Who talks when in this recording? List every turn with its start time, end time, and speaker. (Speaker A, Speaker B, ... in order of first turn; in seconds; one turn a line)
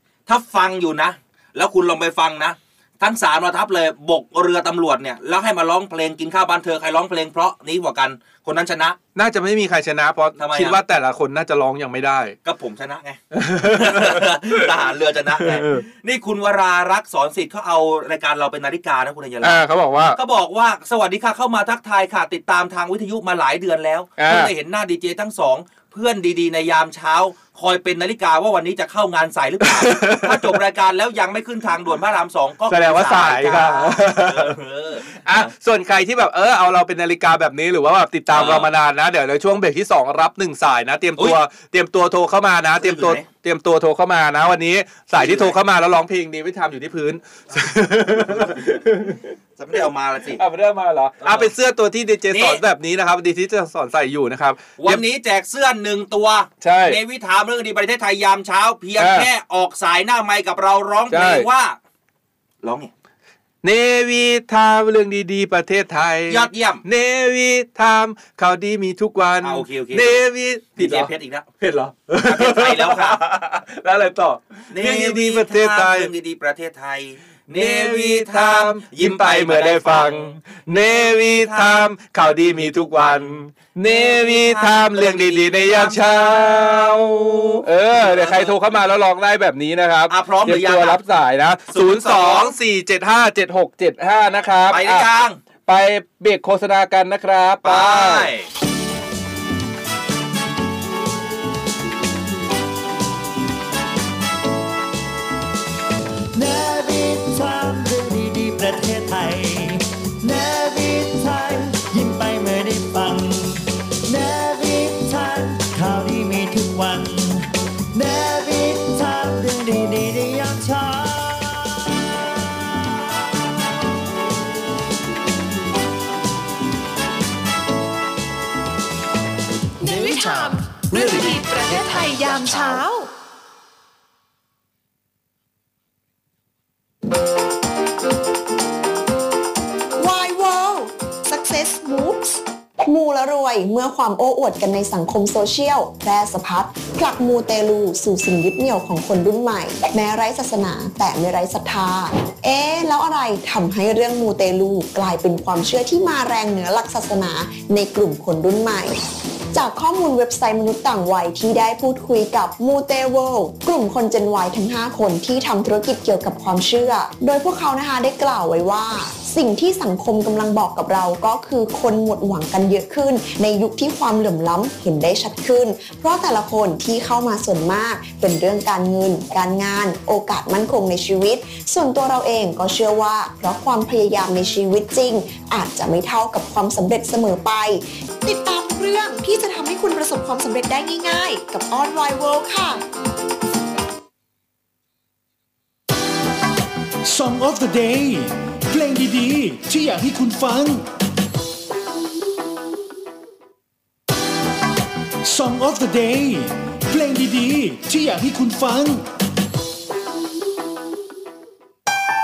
Speaker A: 0.3-9.0
Speaker B: 9.2-12.3
Speaker A: 10.4-10.8
Speaker A: 12.4-35.5
Speaker B: 13.3-14.7
Speaker B: 15.4-15.8
Speaker B: 19.4-20.2
Speaker B: 24.2-24.5
Speaker B: 29.6-30.5
Speaker B: 32.7-34.6
Speaker B: 35.2-49.3
Speaker A: 38.3-38.7
Speaker A: 42.8-43.2
Speaker A: 45.1-45.6
Speaker A: 48.1-48.7
Speaker A: 49.6-50.4
Speaker B: 50.4-55.0
Speaker A: 51.2-51.5
Speaker A: 52.3-52.6
Speaker A: 54.8-61.8
Speaker B: 56.6-57.0
Speaker B: 59.0-59.3
Speaker B: 61.1-61.5
Speaker A: 62.6-62.9
Speaker B: 63.6-76.1
Speaker A: 66.3-66.8
Speaker A: 69.4-70.2
Speaker A: 70.8-71.5
Speaker A: 72.2-73.2
Speaker A: 74.7-81.9
Speaker B: 77.5-95.0
Speaker A: 82.9-88.5
Speaker A: 90.1-91.0
Speaker A: 91.7-92.5
Speaker A: 94.7-95.4
Speaker B: 95.7-98.3
Speaker A: 97.6-98.5
Speaker C: 106.3-122.1
Speaker C: 123.1-123.4
Speaker D: 129.8-133.1
Speaker E: 140.0-159.0
Speaker E: 159.5-192.8
Speaker F: 197.0-200.8
Speaker F: 205.2-209.1